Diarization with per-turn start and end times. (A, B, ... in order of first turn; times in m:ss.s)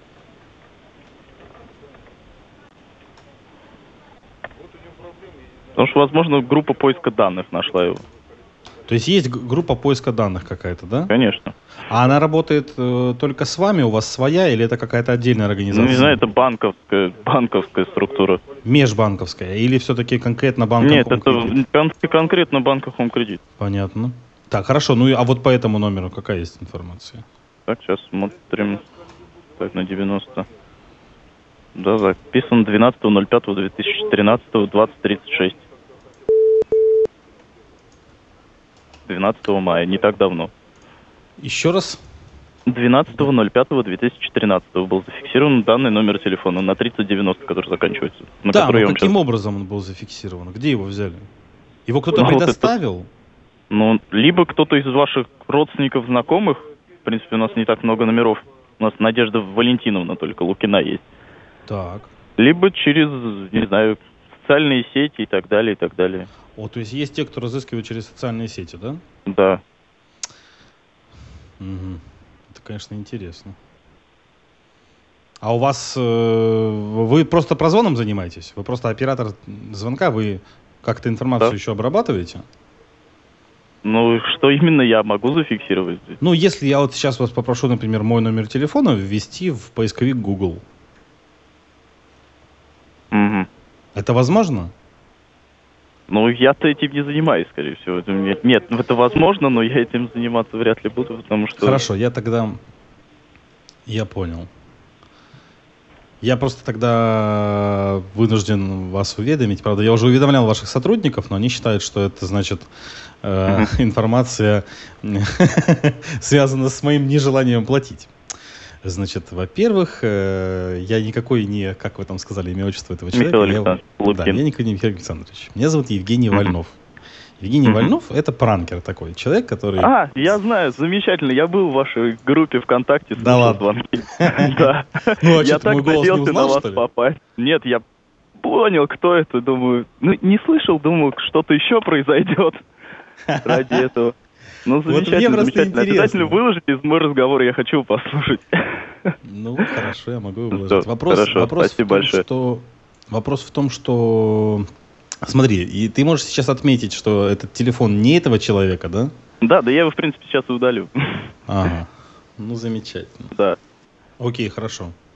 0:05.8-0:08.0 A
0:08.9-0:11.1 B
0:11.1-0:11.5 A
0:11.9-0:16.2 B
0:15.7-0:18.4 A
0:18.6-0:21.6 B
0:20.8-0:23.4 A
0:23.6-0:27.2 B
0:27.7-0:28.8 A
0:29.6-0:30.5 A
0:31.8-0:35.6 A
0:39.1-0:40.5 A
0:41.4-0:42.0 B
0:42.7-0:49.1 A
0:48.5-0:51.3 B
0:51.9-0:53.1 B
0:52.1-0:52.8 A
0:53.7-1:01.0 A
1:01.7-1:02.1 B
1:02.4-1:06.3 A
1:06.6-1:09.0 B
1:09.3-1:09.6 A
1:11.6-1:13.6 B
1:15.4-1:22.4 B
1:23.8-1:26.2 A
1:26.2-1:30.6 B
1:33.1-1:33.5 A
1:33.9-1:34.7 B
1:36.1-1:41.9 A
1:41.6-1:42.6 B
1:43.9-1:44.5 B
1:46.2-1:52.7 B
1:53.2-1:58.1 B
1:58.8-2:06.8 B
2:03.1-2:04.4 A
2:07.4-2:09.9 B
2:07.7-2:07.9 A
2:09.8-2:17.8 A
2:13.2-2:13.6 B
2:14.2-2:16.8 B
2:18.4-2:22.6 A
2:23.3-2:23.8 B
2:23.4-2:24.1 A
2:24.6-2:29.7 A
2:24.8-2:26.4 B
2:29.2-2:34.7 B
2:30.5-2:32.2 A
2:35.2-2:39.1 B
2:39.4-2:41.3 A
2:41.5-2:43.3 B
2:43.3-2:43.6 A
2:44.2-2:44.9 B